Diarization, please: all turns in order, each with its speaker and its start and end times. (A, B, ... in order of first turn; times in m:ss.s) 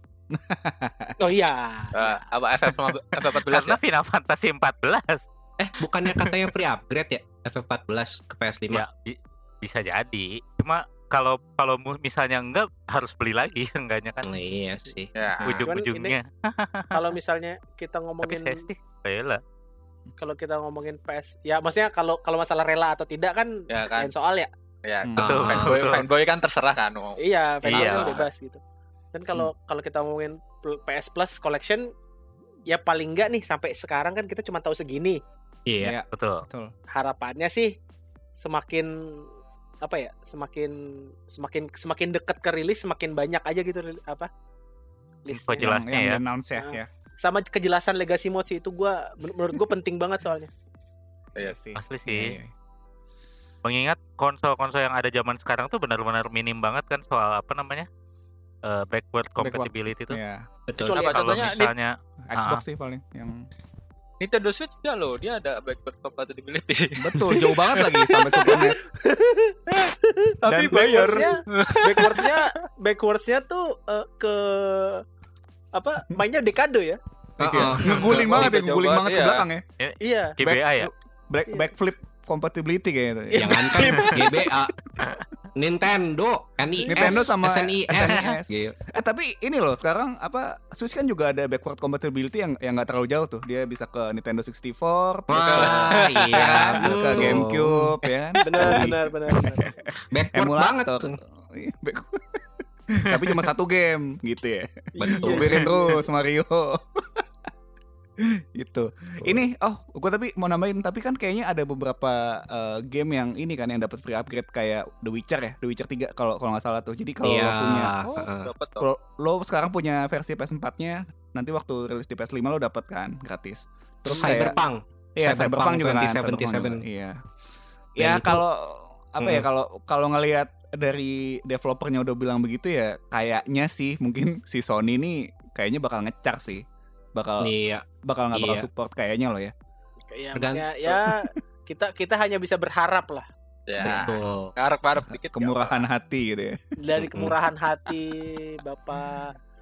0:00.3-0:01.2 A
0:01.2-0:02.1 B
0:01.9-0:03.8 C
0:03.2-0:05.2 D
0:05.6-0:08.8 E
0:06.1-0:06.5 D
0:08.7-0:14.3 D
0:14.2-0:15.7 E
0:15.2-0:15.6 C
0:15.4-0:17.0 D
0:15.6-0:16.2 B
0:16.9-0:18.6 B
0:18.2-0:19.4 D
0:20.2-0:24.5 B
0:23.7-0:24.1 C
0:24.8-0:28.3 C
0:25.0-0:25.4 A
0:25.2-0:25.8 E
0:25.2-0:26.1 D
0:27.2-0:28.6 B
0:27.7-0:28.2 D
0:29.1-0:31.9 B
0:32.7-0:35.2 B
0:35.7-0:36.0 E
0:35.8-0:36.7 A
0:36.1-0:36.4 D
0:36.9-0:37.7 B
0:38.4-0:39.3 B
0:39.8-0:40.8 B
0:41.3-0:44.3 B
0:45.2-0:45.7 B
0:45.3-0:46.2 D
0:45.6-0:46.9 A
0:46.6-0:50.5 B
0:51.4-0:52.5 A
0:51.8-0:52.4 D
0:53.6-0:57.9 D
0:58.6-1:00.2 D
0:59.4-1:00.5 A
1:00.7-1:01.0 E
1:00.8-1:01.6 B
1:00.9-1:01.7 C
1:01.0-1:02.6 D
1:02.3-1:03.5 A
1:04.2-1:08.8 C
1:07.0-1:08.9 A
1:08.4-1:15.0 B
1:09.8-1:12.5 C
1:10.5-1:11.2 A
1:15.7-1:17.0 B
1:17.4-1:18.5 E
1:17.4-1:19.6 A
1:17.8-1:18.1 D
1:17.9-1:19.5 C
1:19.8-1:20.9 D
1:20.0-1:20.4 B
1:20.4-1:24.1 A
1:23.4-1:24.5 B
1:23.4-1:24.9 E
1:25.6-1:28.8 E
1:26.8-1:27.3 B
1:26.9-1:39.0 A
1:35.3-1:38.0 E
1:35.6-1:36.8 C
1:36.8-1:37.4 B
1:38.4-1:39.7 B
1:39.6-1:42.4 A
1:40.1-1:41.2 E
1:42.9-1:47.2 A
1:45.0-1:46.0 B
1:45.0-1:45.6 E
1:48.2-1:57.9 A
1:57.2-1:58.5 E
1:58.0-1:58.9 C
1:58.8-2:04.6 A
2:04.1-2:06.8 E
2:04.2-2:04.5 B
2:05.2-2:07.2 A
2:08.0-2:17.5 A
2:08.0-2:08.4 E
2:09.2-2:09.5 E
2:17.4-2:18.7 E
2:18.0-2:19.5 A
2:20.1-2:23.3 B
2:20.3-2:20.8 E
2:23.7-2:25.8 C
2:23.8-2:24.1 A
2:23.8-2:24.5 E
2:25.1-2:26.6 A
2:26.8-2:29.3 B
2:27.0-2:27.4 E